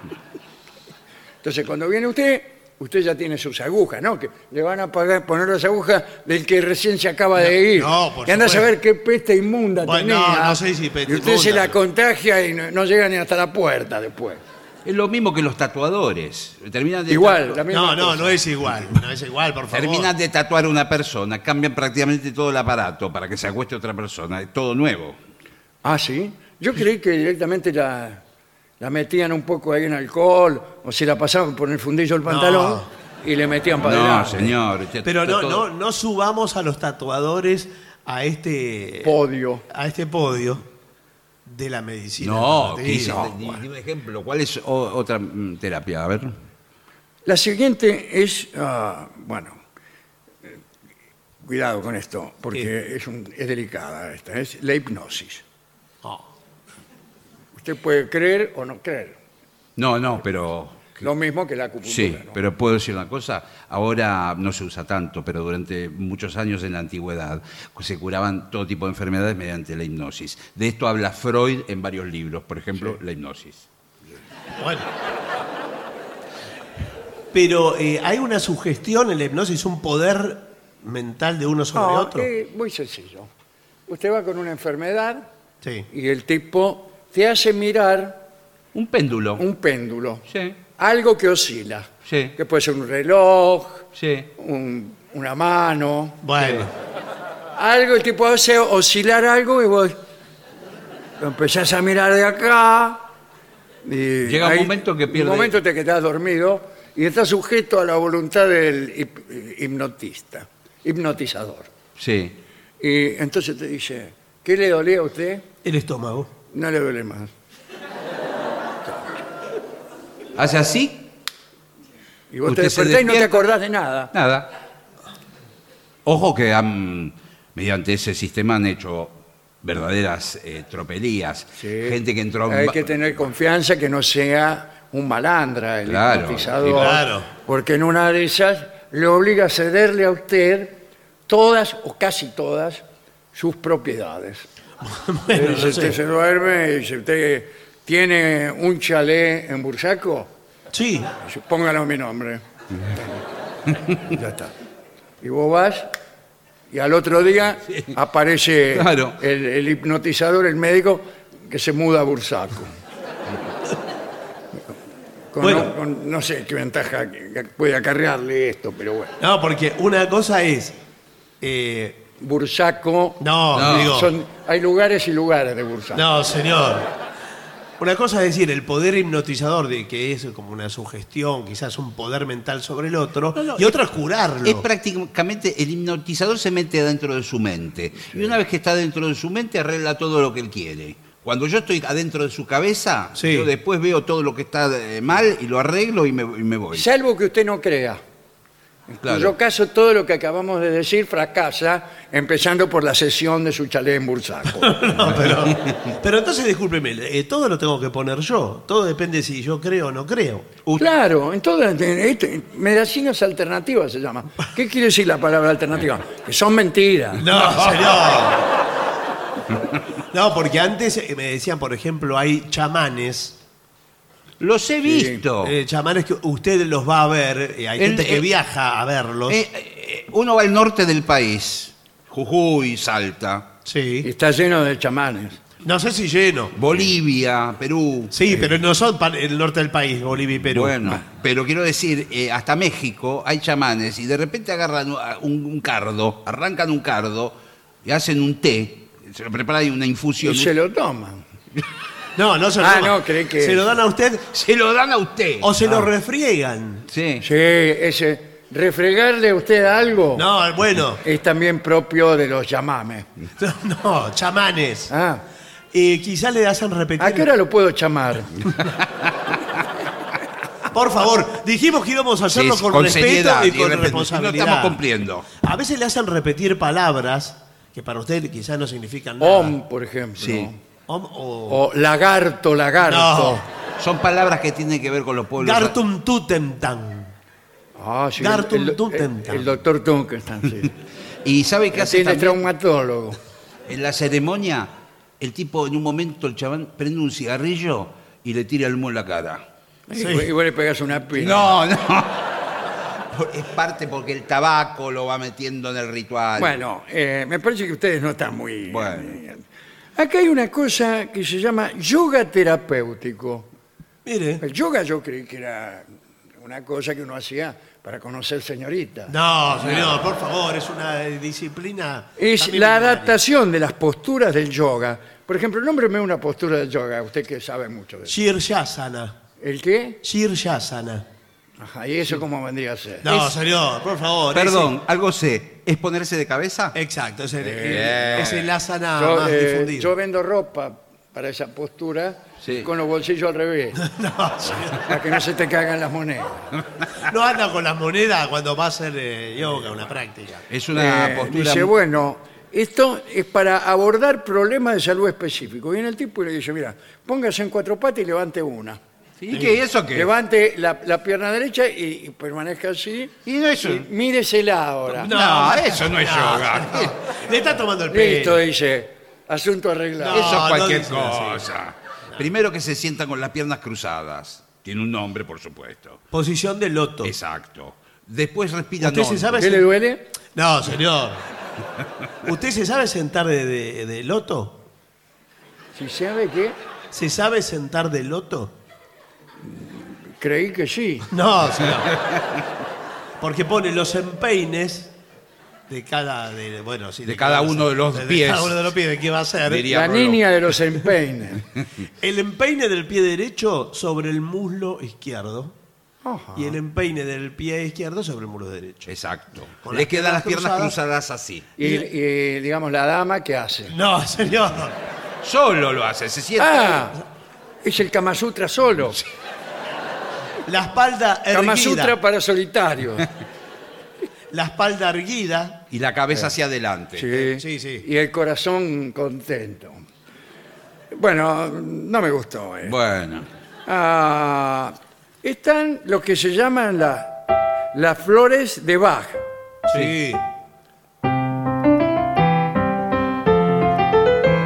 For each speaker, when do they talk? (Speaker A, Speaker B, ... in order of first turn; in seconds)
Speaker A: 1.4-14.4, 17.1-18.4, 25.8-28.2, 28.8-34.5, 39.0-39.6, 42.9-43.6, 47.2-49.6, 51.4-55.4, 57.5-59.2, 61.0-62.4, 81.7-83.3, 83.9-85.3, 85.9-88.2, 89.4-90.2, 90.8-96.7, 97.5-100.0, 101.2-103.1, 103.8-111.7, 112.8-115.4, 116.5-117.3, 122.3-124.1, 131.6-142.8, 143.3-144.4, 145.3-150.3, 151.2-152.4, 154.1-154.5, 155.2-155.9, 156.7-162.7, 165.3-169.2, 172.2-176.0, 196.7-198.0, 198.9-204.8, 210.8-217.2, 224.8-225.2, 234.0-235.4, 250.2-251.2, 252.6-253.7, 257.2-260.2, 261.0-263.1, 264.9-265.2, 267.0-268.5, 279.2-280.6, 281.5-283.4, 287.8-290.7, 291.7-293.2, 299.9-301.6, 306.4-309.4, 309.9-313.5, 314.4-315.9, 316.4-319.1, 322.2-328.2, 329.4-330.0, 331.6-333.1, 337.4-338.3, 338.9-343.8, 344.8-346.5, 350.7-358.8, 359.9-365.1, 367.9-370.4, 379.4-380.1, 385.8-386.6, 389.4-391.1, 399.7-401.4, 406.0-406.6, 411.6-413.7, 416.4-417.0, 417.6-419.0, 421.3-423.1, 426.9-429.8, 430.9-432.7, 433.6-439.2
Speaker B: 7.4-8.7, 9.8-11.8, 17.7-20.1, 32.2-32.9, 35.0-39.1, 39.7-40.6, 41.4-43.3, 74.6-74.9, 77.3-82.3, 85.6-85.9, 96.2-96.7, 115.6-116.3, 136.7-137.3, 144.8-146.0, 150.7-151.1, 165.4-165.7, 169.2-170.8, 171.4-172.0, 173.2-174.1, 175.9-176.9, 177.8-184.7, 193.2-193.5, 204.5-210.5, 217.2-218.5, 220.1-223.4, 225.4-229.4, 233.7-234.1, 235.6-236.8, 238.1-241.0, 252.2-254.4, 255.4-256.9, 260.1-261.0, 263.4-264.9, 265.7-267.3, 270.7-274.8, 275.4-279.6, 280.9-281.6, 282.8-283.4, 285.4-287.1, 288.2-289.6, 299.9-300.3, 314.0-314.4, 319.1-323.2, 328.1-329.2, 330.0-331.1, 333.0-334.7, 336.7-339.9, 343.8-345.1, 346.9-350.4, 359.3-359.6, 365.0-368.4, 370.0-371.5, 376.1-377.1, 378.8-379.7, 380.3-381.3, 382.2-384.6, 386.9-388.5, 391.1-392.0, 393.2-394.9, 395.7-399.7, 402.0-405.5, 406.4-408.9, 409.6-410.8, 413.7-414.8, 420.4-422.0, 424.3-425.6, 427.1-427.8, 439.7-440.2
Speaker C: 14.8-17.6, 19.7-25.2, 33.8-35.6, 42.2-46.3, 59.8-61.1, 61.8-73.7, 88.7-89.4, 90.3-90.6, 92.0-92.3, 94.0-94.3, 104.2-105.6, 112.0-112.3, 120.3-121.1, 122.5-123.4, 124.1-124.5, 126.0-133.2, 135.8-136.9, 158.7-159.2, 173.5-174.0, 183.4-183.8, 184.4-196.8, 199.0-199.3, 205.3-205.7, 217.3-217.7, 224.4-225.6, 227.8-228.3, 229.3-233.5, 236.6-238.5, 240.4-250.5, 254.3-255.6, 256.9-257.2, 272.3-275.3, 280.2-280.5, 283.8-285.8, 291.2-292.4, 293.7-299.4, 301.1-302.3, 303.1-306.6, 308.7-309.2, 319.5-320.0, 334.3-336.8, 337.6-338.5, 342.4-342.7, 350.5-351.7, 359.2-360.1, 363.2-363.9, 365.0-367.0, 370.1-376.0, 377.0-379.5, 397.1-398.6, 399.4-400.2, 408.9-411.5, 415.2-416.9, 425.7-427.1, 432.6-433.3, 439.7-439.9